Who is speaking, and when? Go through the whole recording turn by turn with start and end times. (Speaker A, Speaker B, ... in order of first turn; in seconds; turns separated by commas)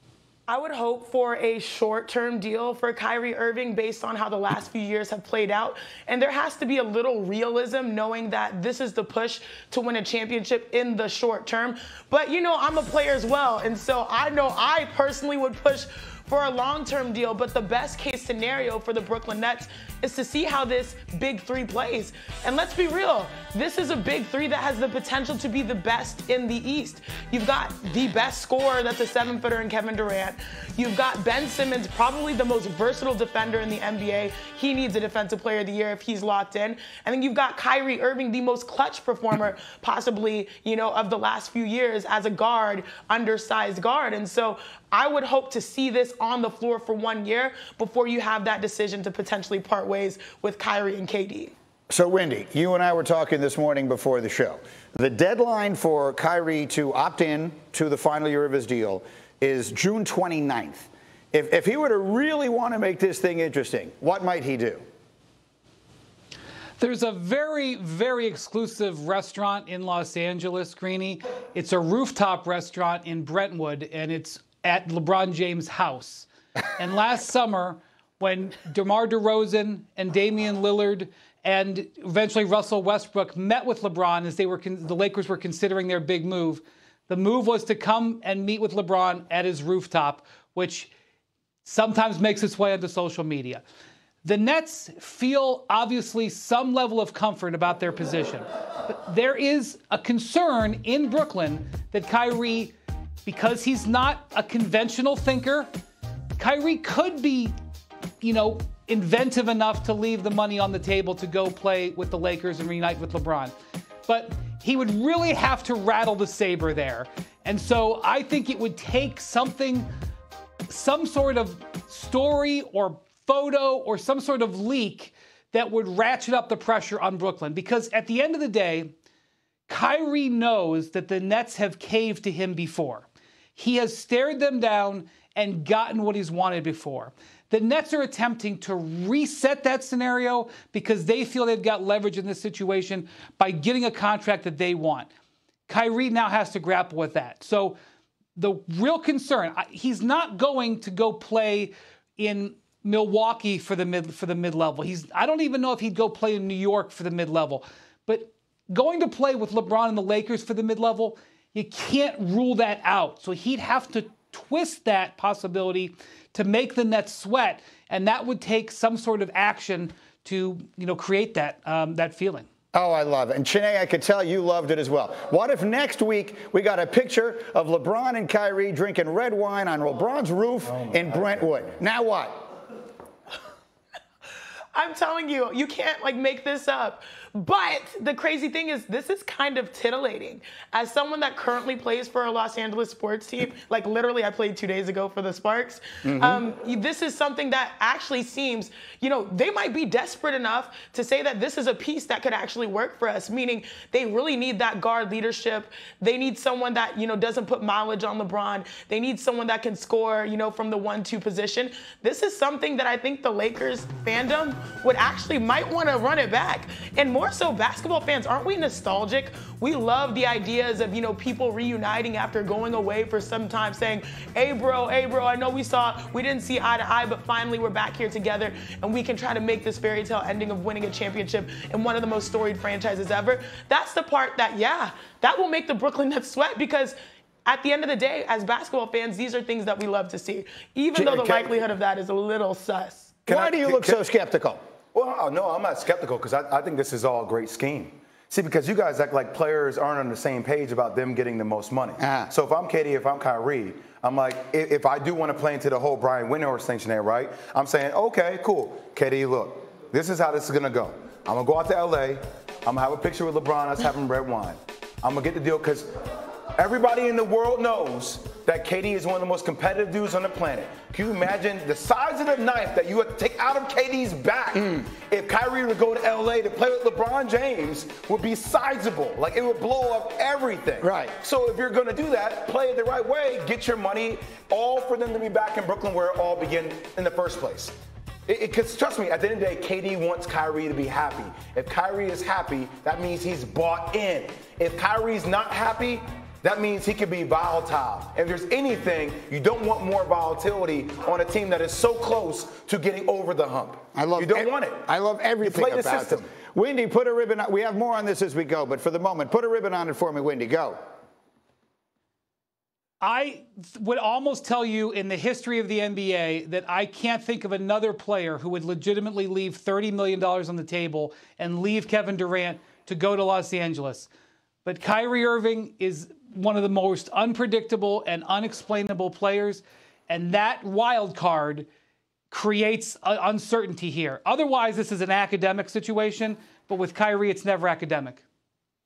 Speaker A: 0.5-51.5, Speaker B: 51.9-64.8, Speaker C: 66.8-90.9, Speaker C: 91.6-93.6, Speaker C: 94.2-102.7, Speaker C: 103.2-105.7, Speaker C: 106.4-107.5, Speaker C: 108.2-113.5, Speaker C: 114.1-119.9, Speaker C: 120.7-128.9, Speaker C: 129.7-145.1, Speaker C: 145.7-147.8, Speaker C: 148.3-172.5, Speaker B: 172.7-182.4, Speaker A: 184.7-243.2, Speaker D: 240.9-241.6, Speaker D: 243.2-244.0, Speaker B: 243.2-244.6, Speaker D: 244.9-265.9, Speaker B: 252.0-252.3, Speaker D: 266.6-287.7, Speaker B: 280.8-281.1, Speaker D: 288.3-304.9, Speaker B: 303.9-310.8, Speaker D: 305.4-306.3, Speaker C: 313.0-324.1, Speaker C: 324.6-331.7, Speaker C: 332.3-338.2